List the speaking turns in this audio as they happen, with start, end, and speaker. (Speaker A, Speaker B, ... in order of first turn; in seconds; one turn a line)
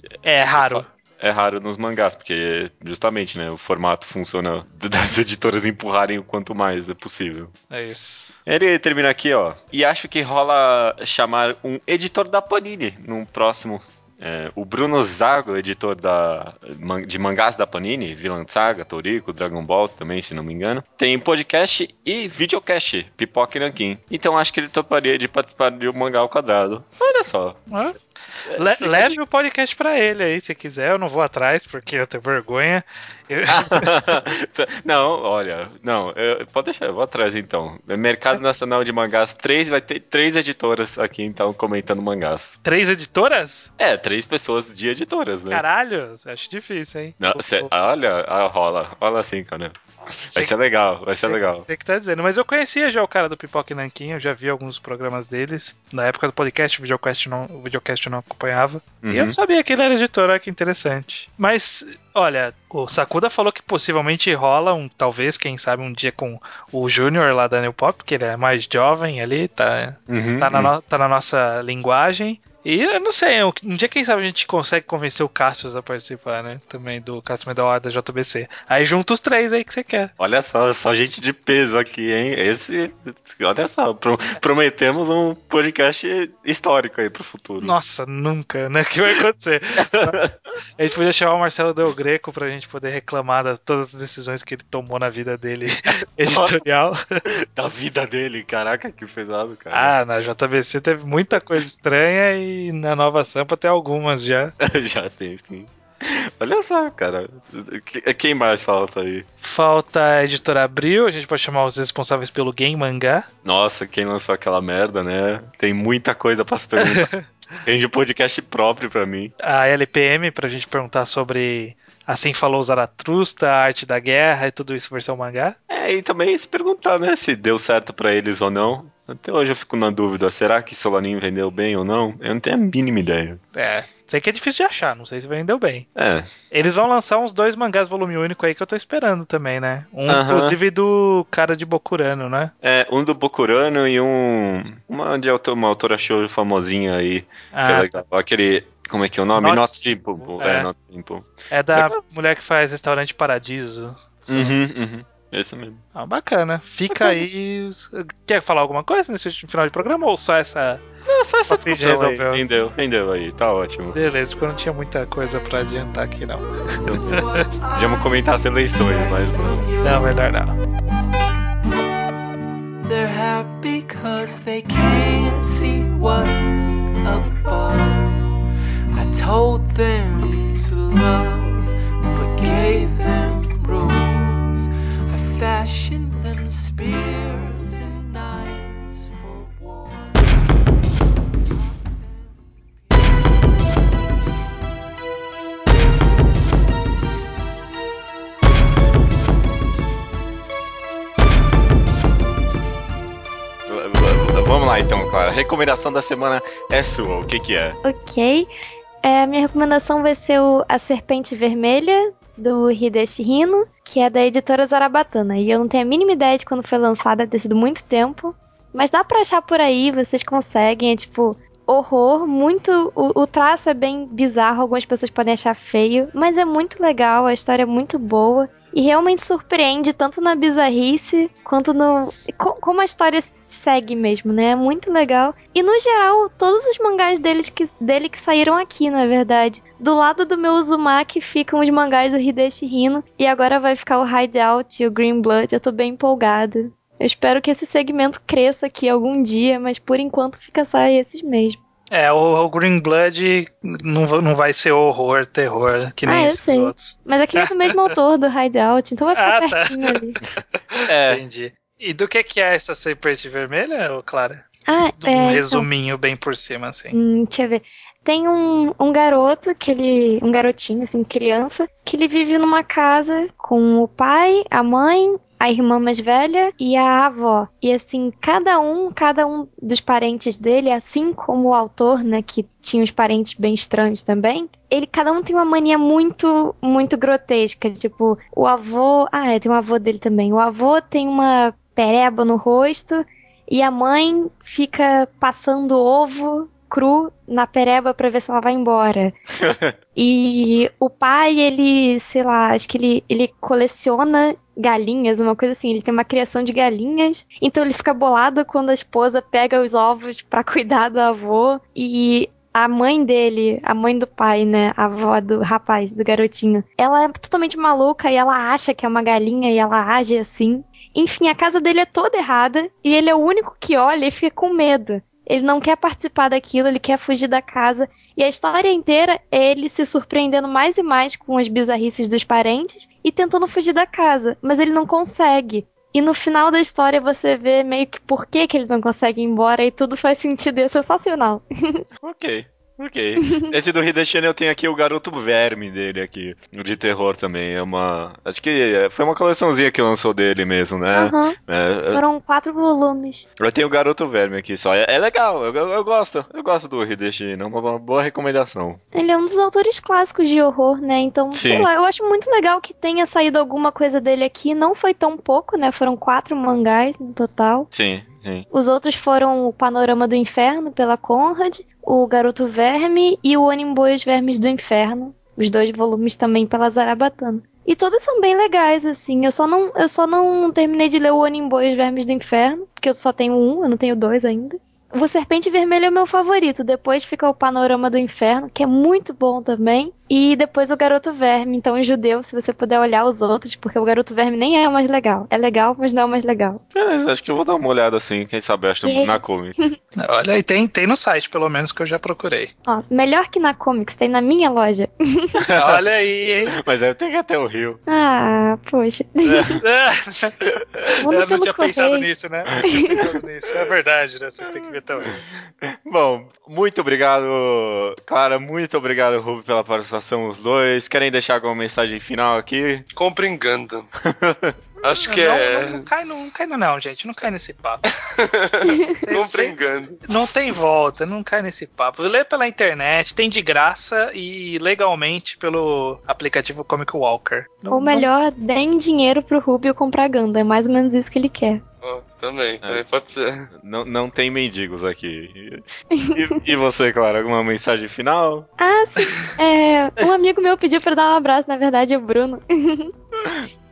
Speaker A: 0.2-0.9
Speaker B: 0.5-7.5
Speaker A: 7.7-8.3
Speaker B: 8.5-27.6
Speaker A: 27.7-28.0
Speaker B: 28.5-29.2
Speaker A: 28.5-33.9
Speaker B: 33.5-42.6
Speaker A: 42.6-43.7
Speaker B: 43.8-45.6
Speaker A: 45.5-47.7
Speaker B: 47.2-49.7
Speaker A: 50.2-50.5
Speaker B: 50.3-51.6
Speaker A: 51.2-80.1
Speaker B: 59.0-59.4
Speaker B: 70.1-70.7
Speaker B: 80.2-87.7
Speaker A: 87.6-90.1
Speaker B: 89.8-90.3
Speaker A: 90.8-97.0
Speaker B: 96.3-96.6
Speaker B: 97.2-99.9
Speaker A: 99.7-104.5
Speaker B: 104.6-109.2
Speaker A: 109.4-113.3
Speaker B: 113.4-117.1
Speaker A: 116.8-117.2
Speaker B: 117.6-119.3
Speaker A: 119.4-125.6
Speaker B: 125.7-133.4
Speaker A: 133.5-135.9
Speaker B: 135.9-136.3
Speaker A: 136.5-142.5
Speaker B: 140.1-140.6
Speaker B: 142.6-152.0
Speaker A: 147.5-148.0
Speaker A: 149.4-149.8
Speaker A: 150.4-150.7
Speaker A: 151.5-154.6
Speaker B: 154.3-155.8
Speaker A: 155.9-160.8
Speaker B: 156.9-157.2
Speaker B: 161.1-163.9
Speaker A: 161.5-162.4
Speaker A: 163.9-167.4
Speaker C: 166.6-170.3
Speaker B: 166.8-169.7
Speaker A: 169.8-170.6
Speaker C: 172.8-178.3
Speaker C: 178.9-190.2
Speaker C: 191.4-193.1
Speaker B: 203.7-207.8
Speaker D: 207.8-208.5
Speaker D: 209.0-251.6
Speaker A: 251.9-257.9
Speaker D: 256.1-260.2
Speaker A: 259.1-260.0
Speaker A: 260.8-264.5
Speaker B: 260.9-261.2
Speaker D: 264.6-265.7
Speaker A: 265.0-266.9
Speaker D: 266.9-299.2
Speaker B: 299.4-299.8
Speaker D: 299.9-341.8
Speaker B: 342.0-352.0
Speaker D: 343.2-343.5
Speaker D: 350.9-351.4
Speaker D: 351.9-353.2
Speaker B: 353.4-358.8
Speaker D: 358.9-367.7
Speaker B: 361.3-361.7
Speaker B: 367.7-368.4
Speaker D: 368.5-396.6
Speaker B: 396.7-399.6
Speaker D: 398.8-399.7
Speaker A: 399.9-402.5
Speaker D: 402.7-405.5
Speaker B: 405.5-405.8
Speaker A: 405.5-406.5
Speaker B: 406.6-407.8
Speaker D: 407.9-409.6
Speaker B: 409.2-409.6
Speaker A: 409.6-410.4
Speaker B: 410.4-411.0
Speaker D: 411.0-412.1
Speaker A: 411.1-415.2
Speaker D: 412.6-413.1
Speaker B: 415.8-422.9
Speaker E: 422.9-423.9
Speaker B: 424.0-424.5
Speaker E: 424.8-425.9
Speaker A: 425.0-427.8
Speaker E: 428.0-430.0
Speaker A: 429.0-438.1
Speaker D: 437.7-441.6
Speaker E: 441.8-443.5
Speaker B: 443.5-448.5
Speaker D: 445.9-446.4
Speaker D: 448.6-452.9